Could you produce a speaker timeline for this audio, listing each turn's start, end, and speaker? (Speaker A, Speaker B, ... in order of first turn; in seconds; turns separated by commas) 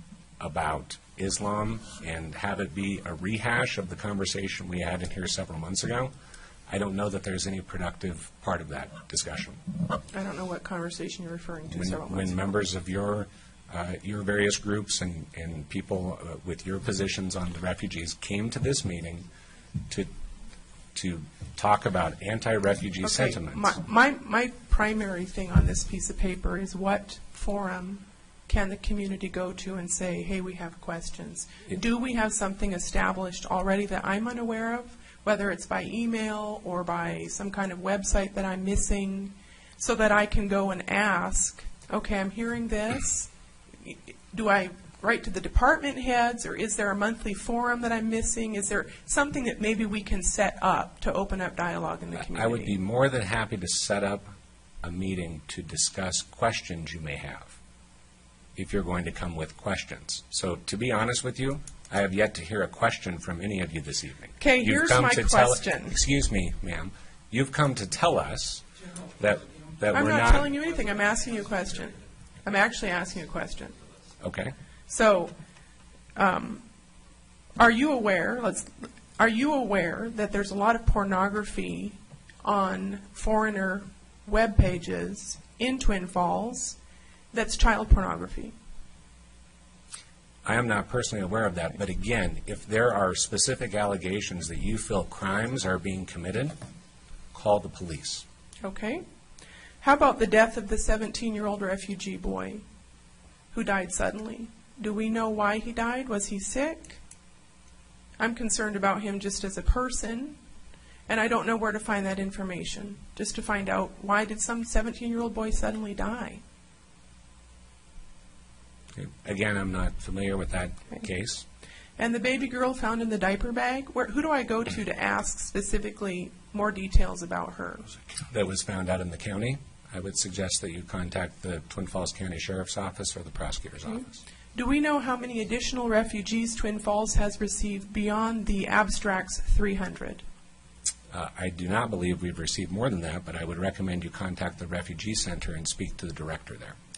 Speaker A: 0.4-6.1, Speaker A: 6.7-9.6, Speaker B: 10.1-12.4, Speaker A: 11.7-19.2, Speaker A: 20.9-23.8, Speaker B: 23.0-43.3, Speaker B: 43.8-52.8, Speaker A: 52.2-57.6, Speaker A: 58.6-68.7, Speaker B: 64.4-66.0, Speaker A: 69.2-70.5, Speaker B: 69.9-73.8, Speaker A: 74.2-74.5, Speaker B: 74.9-75.3, Speaker B: 76.2-76.6, Speaker B: 77.6-86.8, Speaker B: 87.3-88.5, Speaker A: 90.5-96.5, Speaker A: 97.3-98.2, Speaker B: 98.6-99.0, Speaker B: 99.8-102.6, Speaker B: 103.5-107.0, Speaker B: 108.2-110.4, Speaker B: 111.1-116.4, Speaker A: 119.0-121.5, Speaker B: 122.0-127.9, Speaker A: 128.3-134.2, Speaker B: 134.5-140.2, Speaker A: 141.1-146.8